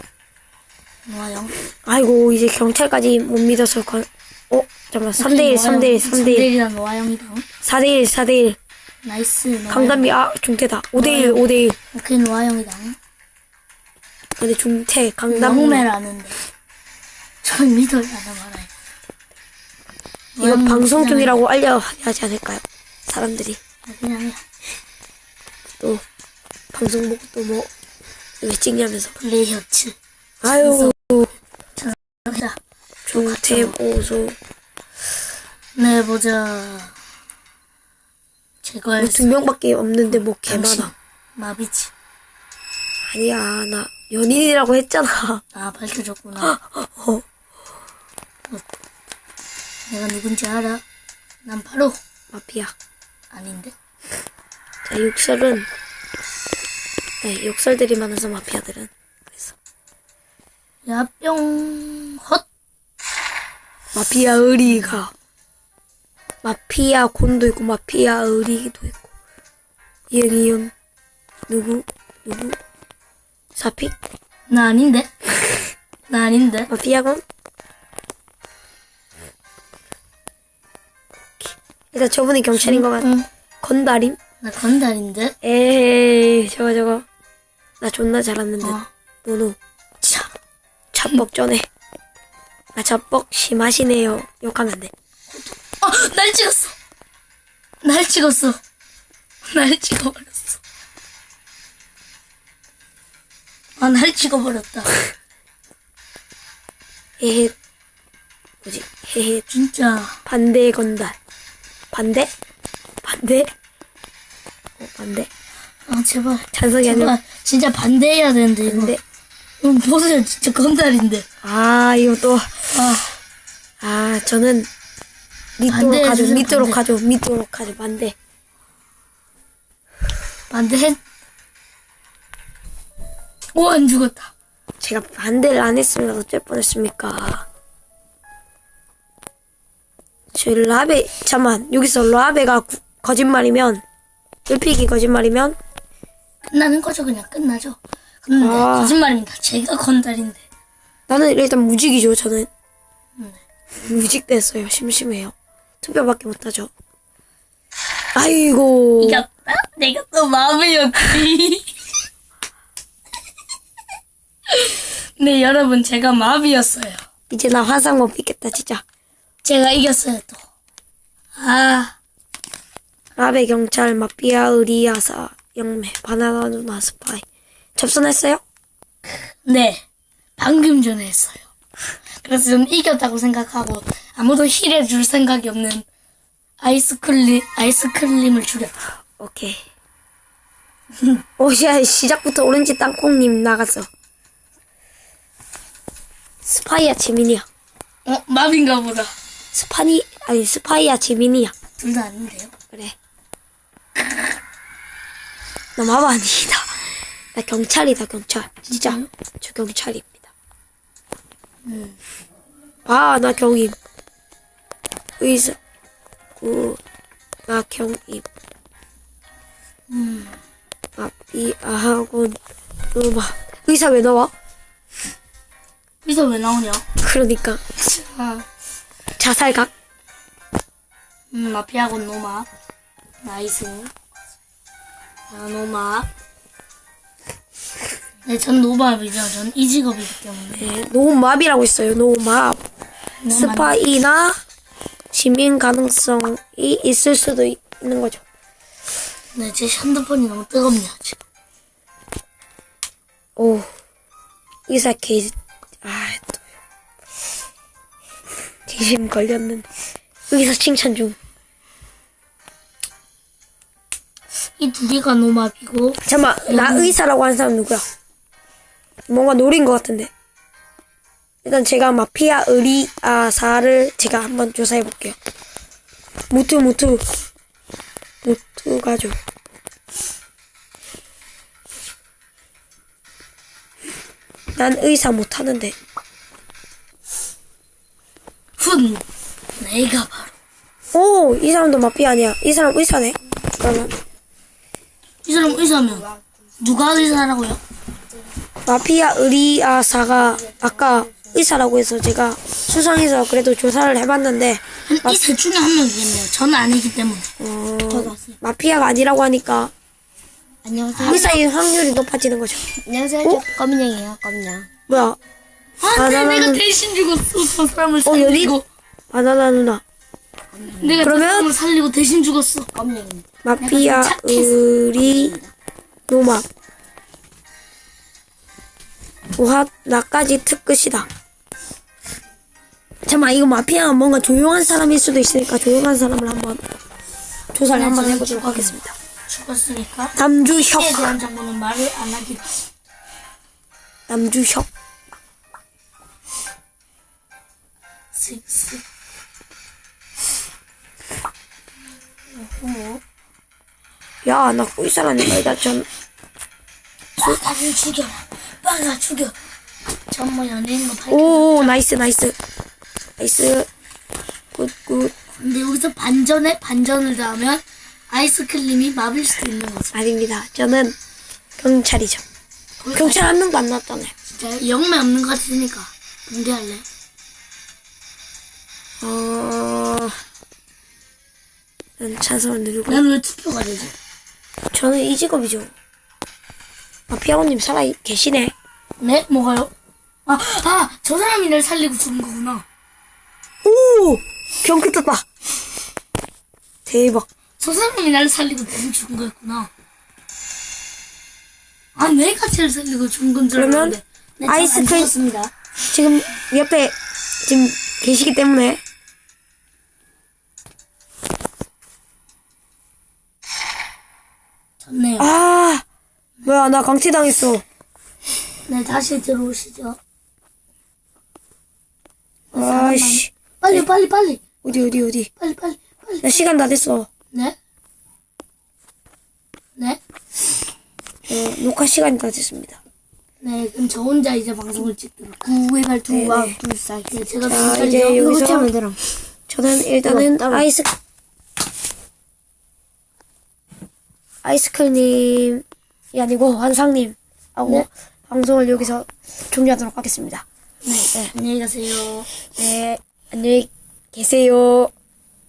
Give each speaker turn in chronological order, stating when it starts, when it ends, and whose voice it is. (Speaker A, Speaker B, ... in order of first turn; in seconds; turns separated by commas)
Speaker A: 1.1-1.5, Speaker B: 1.8-6.5, Speaker A: 5.2-7.5, Speaker B: 7.6-8.6, Speaker A: 9.0-10.1, Speaker B: 9.7-11.8, Speaker A: 10.9-13.0, Speaker B: 14.4-15.9, Speaker A: 15.3-16.4, Speaker A: 17.4-18.7, Speaker A: 20.4-21.4, Speaker B: 20.4-23.6, Speaker A: 23.9-24.4, Speaker B: 26.7-27.7, Speaker B: 28.4-29.1, Speaker A: 29.2-30.9, Speaker B: 30.4-31.3, Speaker A: 31.8-32.6, Speaker B: 33.0-34.4, Speaker A: 33.1-33.8, Speaker A: 35.8-37.0, Speaker A: 38.6-39.3, Speaker B: 39.0-40.9, Speaker A: 40.1-41.9, Speaker B: 43.1-45.4, Speaker A: 45.5-46.5, Speaker B: 46.4-47.2, Speaker A: 49.9-50.8, Speaker A: 51.5-52.0, Speaker B: 52.3-52.7, Speaker A: 53.3-53.7, Speaker B: 54.8-55.7, Speaker B: 57.2-59.5, Speaker A: 60.9-62.5, Speaker B: 63.9-65.1, Speaker B: 66.4-69.1, Speaker B: 70.1-70.7, Speaker B: 71.5-72.6, Speaker B: 73.6-74.0, Speaker A: 74.5-75.1, Speaker A: 76.1-76.7, Speaker B: 76.7-77.2, Speaker B: 81.4-83.1, Speaker A: 82.6-83.3, Speaker B: 83.6-84.2, Speaker A: 84.4-85.3, Speaker B: 85.4-87.0, Speaker B: 87.8-89.6, Speaker A: 88.6-88.9, Speaker A: 90.0-90.3, Speaker B: 90.9-91.7, Speaker B: 92.7-94.9, Speaker A: 95.3-96.8, Speaker A: 97.8-98.6, Speaker A: 99.5-100.6, Speaker A: 103.8-105.0, Speaker B: 107.2-107.5, Speaker B: 108.6-109.5, Speaker A: 109.5-110.2, Speaker B: 110.3-111.2, Speaker B: 111.9-112.3, Speaker B: 113.0-113.5, Speaker B: 114.8-115.3, Speaker A: 115.9-119.0, Speaker B: 116.5-117.2, Speaker B: 118.7-119.0, Speaker A: 119.6-121.2, Speaker B: 121.4-122.7, Speaker A: 122.7-123.2, Speaker B: 123.8-124.7, Speaker B: 125.6-128.2, Speaker A: 125.7-126.8, Speaker A: 130.5-131.0, Speaker A: 133.5-134.3, Speaker B: 134.8-137.5, Speaker B: 140.3-143.8, Speaker B: 144.5-145.6, Speaker A: 146.5-150.4, Speaker B: 148.4-149.0, Speaker B: 151.1-152.5, Speaker B: 153.8-156.7, Speaker B: 158.1-159.2, Speaker A: 159.0-161.8, Speaker A: 164.5-167.0, Speaker B: 167.3-168.8, Speaker A: 169.4-170.4, Speaker A: 171.3-172.0, Speaker B: 173.2-177.2, Speaker B: 177.8-178.4, Speaker A: 179.4-179.8, Speaker A: 180.4-181.5, Speaker A: 182.2-185.8, Speaker A: 186.6-188.7, Speaker B: 189.2-189.6, Speaker B: 191.4-193.9, Speaker B: 196.4-197.5, Speaker A: 198.1-199.1, Speaker B: 199.5-201.5, Speaker A: 201.8-202.5, Speaker B: 205.8-210.3, Speaker A: 208.7-209.1, Speaker A: 211.7-212.0, Speaker B: 212.8-213.8, Speaker B: 215.2-215.6, Speaker B: 216.4-216.8, Speaker B: 217.5-218.2, Speaker A: 219.9-220.4, Speaker B: 221.0-222.4, Speaker B: 222.9-224.3, Speaker A: 226.0-226.8, Speaker B: 227.0-227.6, Speaker A: 227.8-228.5, Speaker B: 229.2-229.7, Speaker A: 231.3-232.5, Speaker A: 233.2-233.9, Speaker A: 235.3-236.1, Speaker A: 238.2-240.7, Speaker B: 240.6-242.6, Speaker A: 243.2-243.8, Speaker B: 243.3-244.4, Speaker B: 245.1-248.2, Speaker A: 249.3-251.2, Speaker B: 253.3-253.7, Speaker B: 254.7-256.4, Speaker B: 258.7-259.6, Speaker B: 260.3-261.2, Speaker A: 264.6-267.0, Speaker B: 266.0-267.9, Speaker B: 269.1-270.1, Speaker B: 271.4-275.2, Speaker B: 276.3-277.1, Speaker B: 278.2-279.2, Speaker B: 284.6-285.8, Speaker A: 288.6-289.0, Speaker A: 289.6-290.3, Speaker B: 290.9-293.9, Speaker A: 295.2-296.1, Speaker A: 296.6-297.6, Speaker B: 298.6-305.2, Speaker C: 300.4-301.3, Speaker A: 304.9-307.3, Speaker B: 307.4-309.7, Speaker C: 307.9-308.4, Speaker C: 310.6-311.4, Speaker B: 311.0-312.7, Speaker C: 312.8-314.7, Speaker B: 314.9-315.2, Speaker A: 315.8-318.6, Speaker B: 315.9-316.6, Speaker B: 318.1-318.6, Speaker B: 319.1-319.8, Speaker C: 320.5-321.0, Speaker A: 320.8-322.7, Speaker B: 321.0-321.5, Speaker C: 322.7-323.3, Speaker B: 323.4-325.4, Speaker A: 323.6-324.6, Speaker C: 325.0-325.5, Speaker B: 326.1-326.5, Speaker B: 329.4-331.1, Speaker B: 333.1-336.6, Speaker B: 337.5-338.9, Speaker A: 337.7-342.7, Speaker B: 340.1-341.1, Speaker B: 344.1-344.7, Speaker A: 348.1-348.8, Speaker A: 352.3-353.0, Speaker B: 354.2-355.9, Speaker A: 357.2-359.4, Speaker A: 360.1-361.7, Speaker B: 361.1-362.4, Speaker B: 363.2-363.7, Speaker B: 364.5-365.1, Speaker A: 365.3-369.9, Speaker B: 369.9-370.9, Speaker B: 371.6-372.2, Speaker A: 372.8-373.2, Speaker B: 372.9-374.1, Speaker A: 374.3-376.9, Speaker B: 379.0-380.2, Speaker B: 382.0-383.0, Speaker A: 382.9-383.9, Speaker B: 384.7-385.7, Speaker B: 387.1-388.5, Speaker A: 389.0-389.7, Speaker A: 390.2-392.6, Speaker B: 393.6-395.2, Speaker B: 396.9-397.3, Speaker A: 397.6-399.7, Speaker A: 401.9-405.5, Speaker B: 403.6-405.1, Speaker B: 405.9-408.8, Speaker A: 414.8-415.3, Speaker B: 415.2-415.9, Speaker B: 416.4-417.6, Speaker A: 418.7-420.0, Speaker A: 422.5-424.4, Speaker B: 422.5-423.9, Speaker B: 424.6-425.3, Speaker A: 425.4-426.4, Speaker B: 426.2-427.1, Speaker A: 427.3-427.6, Speaker B: 431.3-432.8, Speaker A: 433.4-436.2, Speaker C: 436.1-437.3, Speaker B: 436.1-436.6, Speaker A: 437.1-438.3, Speaker B: 437.4-438.7, Speaker C: 437.9-439.0, Speaker B: 439.5-440.9, Speaker C: 440.0-440.7, Speaker B: 444.4-450.4, Speaker A: 450.8-452.3, Speaker B: 452.6-454.9